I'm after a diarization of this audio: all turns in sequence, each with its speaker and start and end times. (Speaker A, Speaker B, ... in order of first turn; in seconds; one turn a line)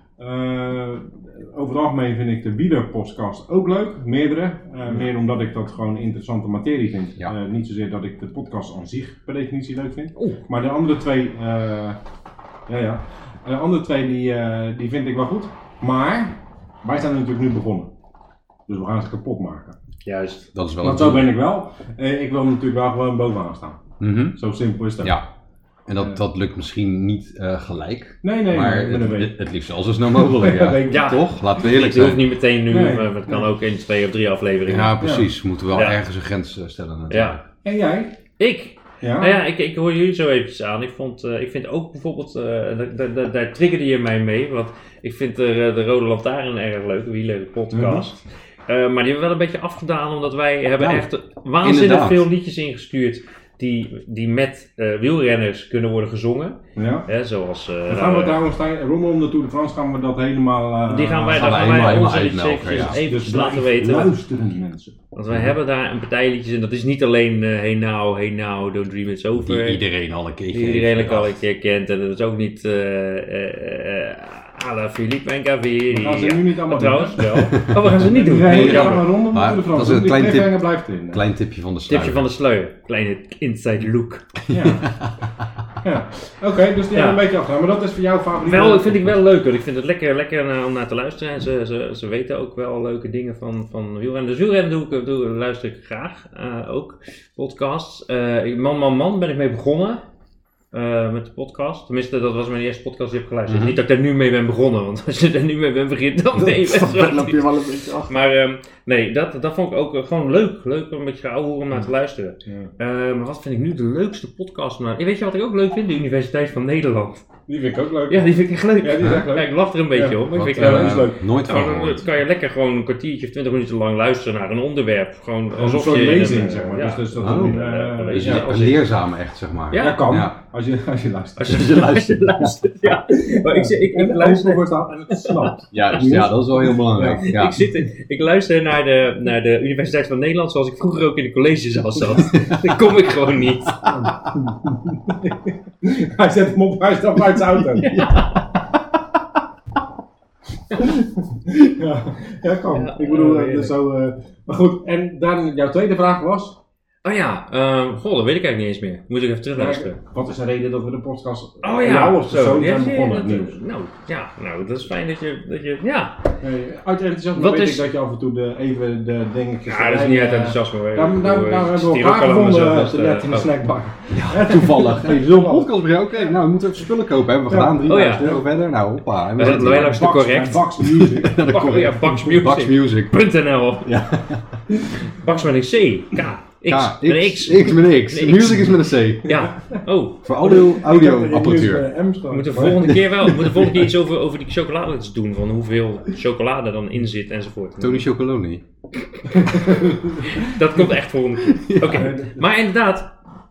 Speaker A: 0.2-12.0
Speaker A: 12.7-17.9
Speaker A: 18.7-19.8
Speaker B: 20.1-20.5
Speaker C: 20.5-21.4
Speaker A: 20.8-23.8
Speaker C: 24.0-24.4
Speaker A: 24.4-25.2
Speaker C: 25.0-25.3
Speaker C: 25.9-32.3
Speaker A: 28.2-29.4
Speaker A: 30.1-31.1
Speaker B: 30.9-35.0
Speaker A: 32.7-33.5
Speaker C: 34.7-37.4
Speaker A: 35.0-35.3
Speaker B: 35.7-36.0
Speaker B: 37.1-37.4
Speaker A: 37.6-38.1
Speaker B: 38.4-58.4
Speaker A: 39.0-39.4
Speaker A: 47.7-48.1
Speaker C: 50.8-51.1
Speaker C: 51.6-52.3
Speaker A: 56.8-57.1
Speaker A: 57.9-65.0
Speaker B: 60.9-64.1
Speaker C: 61.4-63.0
Speaker B: 65.1-69.8
Speaker C: 69.4-71.4
Speaker B: 70.5-79.1
Speaker A: 75.9-77.2
Speaker C: 77.6-82.3
Speaker A: 77.8-81.2
Speaker B: 81.9-84.3
Speaker C: 84.5-85.4
Speaker A: 84.5-84.9
Speaker A: 85.8-89.1
Speaker B: 86.9-87.2
Speaker B: 88.4-100.0
Speaker B: 100.7-117.2
Speaker C: 103.5-103.8
Speaker C: 106.3-108.2
Speaker A: 112.5-112.7
Speaker A: 117.5-121.2
Speaker B: 118.1-128.9
Speaker C: 120.3-122.1
Speaker A: 125.5-128.5
Speaker C: 127.2-127.6
Speaker C: 128.2-130.3
Speaker B: 129.7-130.1
Speaker A: 129.8-131.7
Speaker B: 131.4-135.5
Speaker C: 131.5-132.6
Speaker A: 132.8-137.3
Speaker C: 135.7-137.6
Speaker B: 137.2-143.8
Speaker C: 143.8-144.1
Speaker A: 143.9-148.0
Speaker B: 147.8-148.5
Speaker C: 147.9-148.2
Speaker A: 150.8-156.6
Speaker B: 152.7-153.7
Speaker B: 157.0-160.0
Speaker A: 159.6-163.6
Speaker B: 161.6-166.2
Speaker A: 166.4-176.3
Speaker B: 167.3-167.9
Speaker B: 169.7-173.5
Speaker C: 174.1-180.0
Speaker A: 177.5-178.4
Speaker B: 177.9-178.3
Speaker B: 179.4-180.7
Speaker A: 179.5-181.5
Speaker C: 180.8-183.2
Speaker B: 181.5-183.9
Speaker C: 183.8-184.6
Speaker A: 184.7-185.0
Speaker B: 185.0-190.2
Speaker C: 186.7-189.4
Speaker A: 189.3-189.8
Speaker C: 190.2-191.9
Speaker A: 190.4-193.0
Speaker B: 192.3-198.1
Speaker C: 192.9-193.8
Speaker C: 197.8-198.6
Speaker A: 199.3-200.9
Speaker B: 200.2-203.1
Speaker C: 201.4-202.1
Speaker A: 201.9-202.4